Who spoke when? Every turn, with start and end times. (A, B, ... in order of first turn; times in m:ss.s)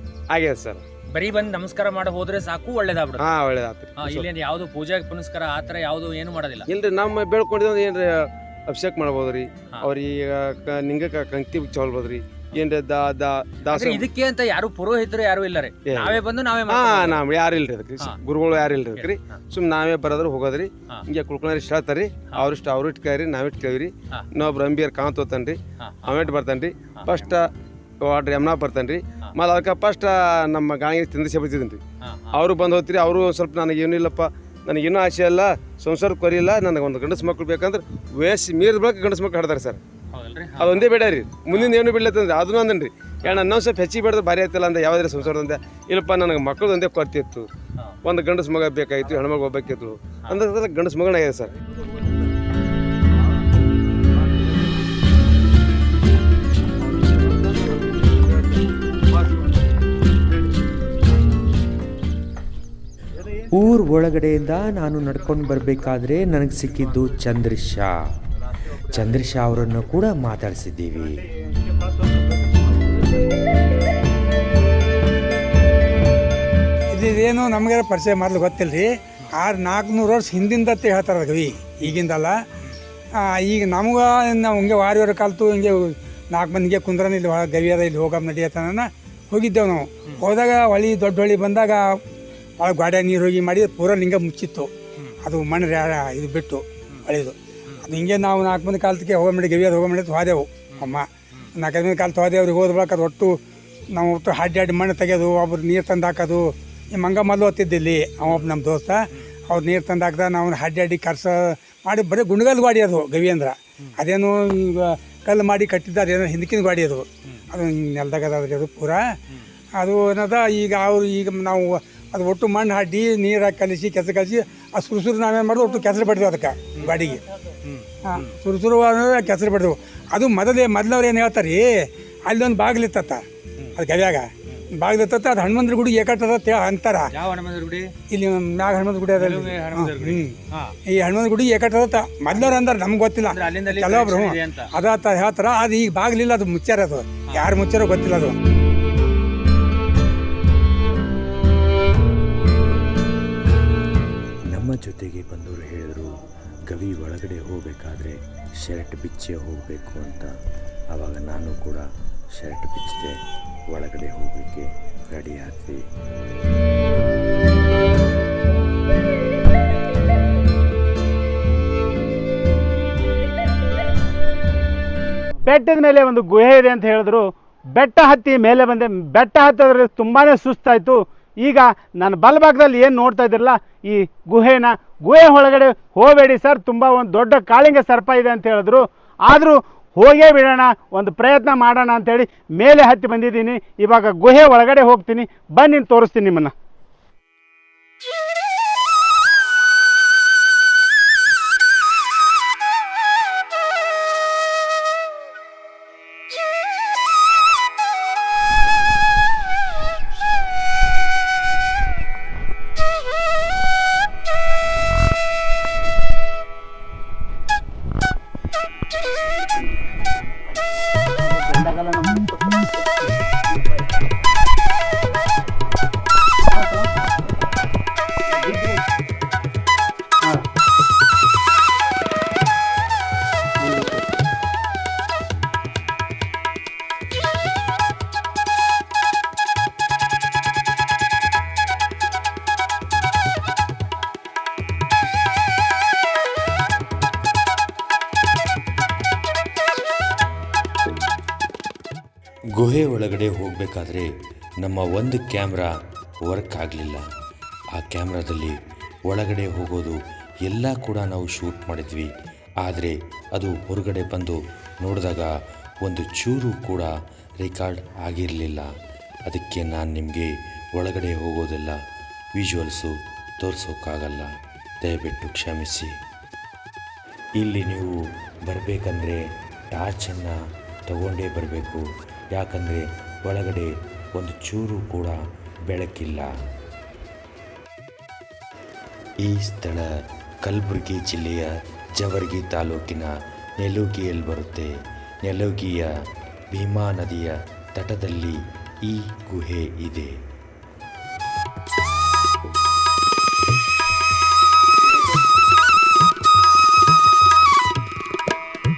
0:00.3-0:00.8 A
0:01.1-0:03.3 B
0:03.2-0:04.3 A
0:04.0-0:06.7 B
0:06.7-0:14.1 A
0:13.7-0:17.2 B
0:15.8-0:27.5 A
0:25.8-0:26.3 B
0:27.0-0:27.3 B
0:28.0-0:39.8 A
0:32.0-0:32.4 B
0:40.1-0:41.0 B
0:40.6-0:47.5 A
0:48.0-0:51.5 A
0:57.6-0:58.0 A
1:03.5-1:08.0 C
1:08.9-1:11.2 C
1:11.7-1:12.6 D
1:16.9-1:22.3 E
1:23.2-1:32.0 E
1:32.6-1:34.7 E
1:35.2-1:43.4 E
1:40.8-1:41.5 B
1:43.9-1:59.1 E
1:59.8-2:07.2 E
2:07.6-2:08.2 B
2:08.0-2:11.7 E
2:12.3-2:13.2 E
2:13.8-2:17.1 E
2:17.1-2:17.9 B
2:18.1-2:20.4 E
2:19.2-2:20.8 B
2:20.9-2:28.4 E
2:23.2-2:24.7 B
2:34.5-2:40.3 C
2:40.9-2:43.2 C
2:43.7-2:45.8 C
2:55.5-2:57.2 D
2:57.8-3:16.5 D
3:41.2-3:42.7 D
3:46.5-3:46.9 D
3:48.3-3:48.8 D
3:53.6-3:54.0 D
4:12.6-4:14.1 C
4:14.6-4:15.7 C
4:16.2-4:17.0 C
4:17.8-4:18.5 C
4:19.1-4:22.1 C
4:22.6-4:25.3 C
4:25.8-4:28.7 C
4:29.3-4:31.8 C
4:32.4-4:34.3 C
4:34.8-4:35.9 C
4:37.4-4:37.9 C
4:38.5-4:39.2 C
4:39.7-4:40.4 C
4:40.9-4:45.2 C
4:45.7-4:46.3 C
4:49.2-4:49.9 C
4:50.4-4:54.7 C
4:55.2-4:55.9 C
4:56.5-5:00.1 C